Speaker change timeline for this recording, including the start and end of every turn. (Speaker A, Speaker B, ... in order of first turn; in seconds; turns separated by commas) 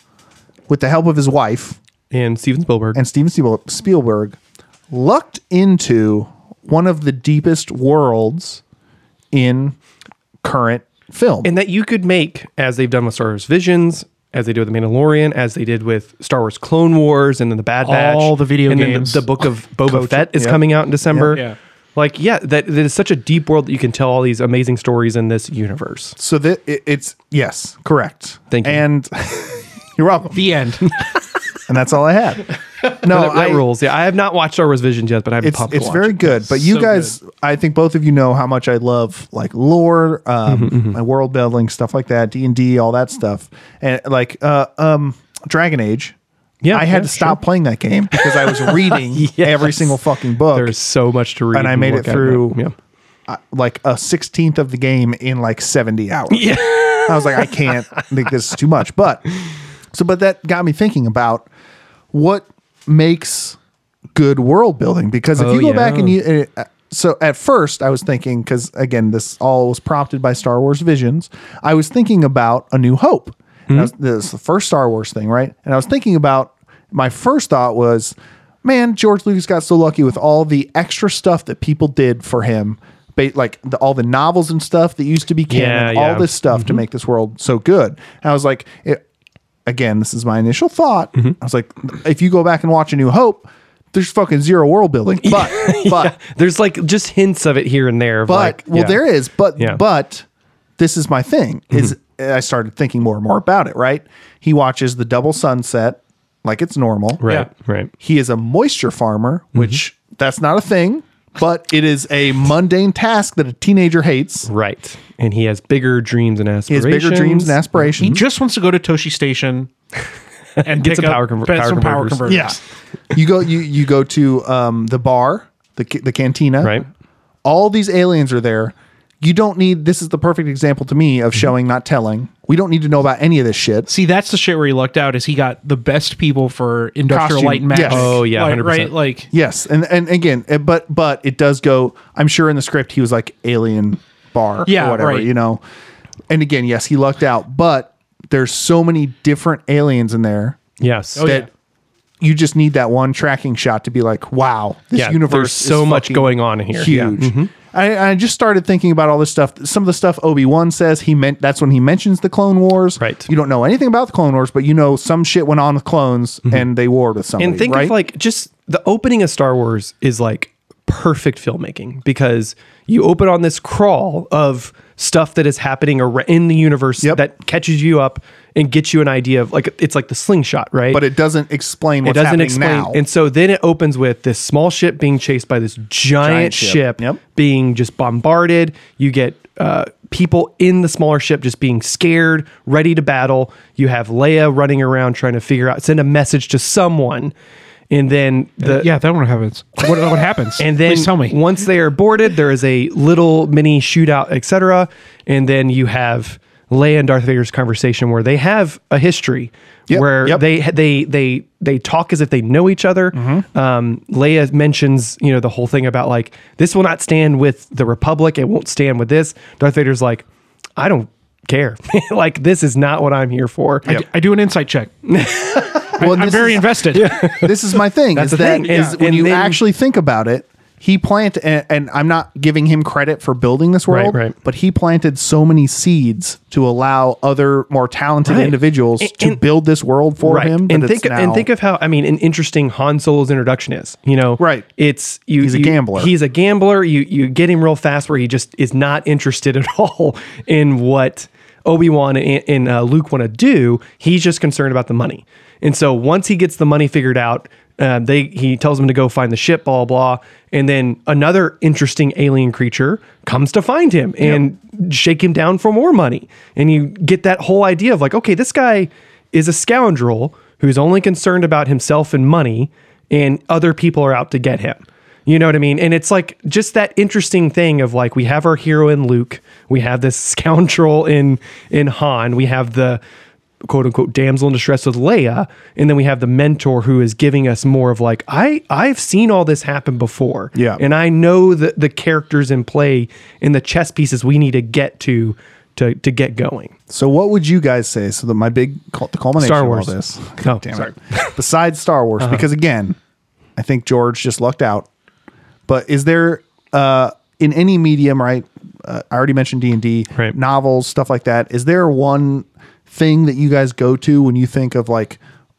Speaker A: 0.7-1.8, Speaker B: 2.1-3.0, Speaker A: 3.0-4.4, Speaker A: 4.9-8.6, Speaker A: 9.3-9.8, Speaker A: 10.4-11.5, Speaker B: 11.4-21.4, Speaker C: 17.8-19.3, Speaker A: 19.9-21.4, Speaker B: 22.0-26.2, Speaker A: 26.2-30.5, Speaker B: 28.5-28.8, Speaker C: 30.3-30.9, Speaker A: 31.7-33.7, Speaker B: 32.9-36.5, Speaker A: 35.4-46.2, Speaker C: 36.5-37.1, Speaker B: 40.5-41.0, Speaker B: 46.6-47.4, Speaker A: 46.7-50.7, Speaker B: 48.1-50.0, Speaker B: 50.5-52.7, Speaker A: 51.5-52.6, Speaker A: 53.3-59.3, Speaker B: 56.3-58.0, Speaker A: 59.9-61.5, Speaker A: 62.1-63.6, Speaker A: 64.1-89.0, Speaker B: 65.4-66.2, Speaker B: 85.5-86.8, Speaker A: 89.7-96.2, Speaker B: 95.2-99.0, Speaker A: 98.3-100.3, Speaker A: 100.8-107.2, Speaker B: 107.2-107.9, Speaker A: 108.0-114.5, Speaker B: 114.5-118.1, Speaker A: 116.7-118.2, Speaker C: 118.0-119.7, Speaker B: 120.6-122.5, Speaker C: 120.6-122.6, Speaker A: 122.2-122.6, Speaker A: 123.1-126.8, Speaker B: 126.6-126.9, Speaker A: 127.4-133.9, Speaker C: 133.9-139.3, Speaker A: 137.1-138.2, Speaker B: 137.8-138.9, Speaker A: 139.3-145.6, Speaker C: 144.7-145.3, Speaker A: 146.3-150.6, Speaker B: 150.8-151.4, Speaker C: 151.2-151.5, Speaker A: 151.2-151.5, Speaker A: 152.2-167.9, Speaker B: 154.9-157.5, Speaker B: 163.0-163.3, Speaker B: 167.4-181.0, Speaker A: 180.9-183.0, Speaker B: 182.0-197.3, Speaker A: 186.2-187.2, Speaker B: 197.9-198.9, Speaker C: 198.6-201.4, Speaker B: 200.6-220.2, Speaker A: 209.9-210.4, Speaker A: 213.1-213.4, Speaker B: 220.8-223.9, Speaker C: 223.9-224.9, Speaker B: 225.1-226.0, Speaker C: 226.0-227.2, Speaker A: 226.0-241.5, Speaker B: 226.9-229.6, Speaker B: 233.9-234.3, Speaker B: 238.2-239.4, Speaker B: 240.2-283.0, Speaker A: 244.4-244.7, Speaker A: 245.4-246.1, Speaker B: 283.6-296.7, Speaker A: 290.6-290.8, Speaker A: 296.9-303.0, Speaker B: 299.4-301.4, Speaker B: 302.2-302.4, Speaker A: 303.6-304.9, Speaker A: 305.7-315.2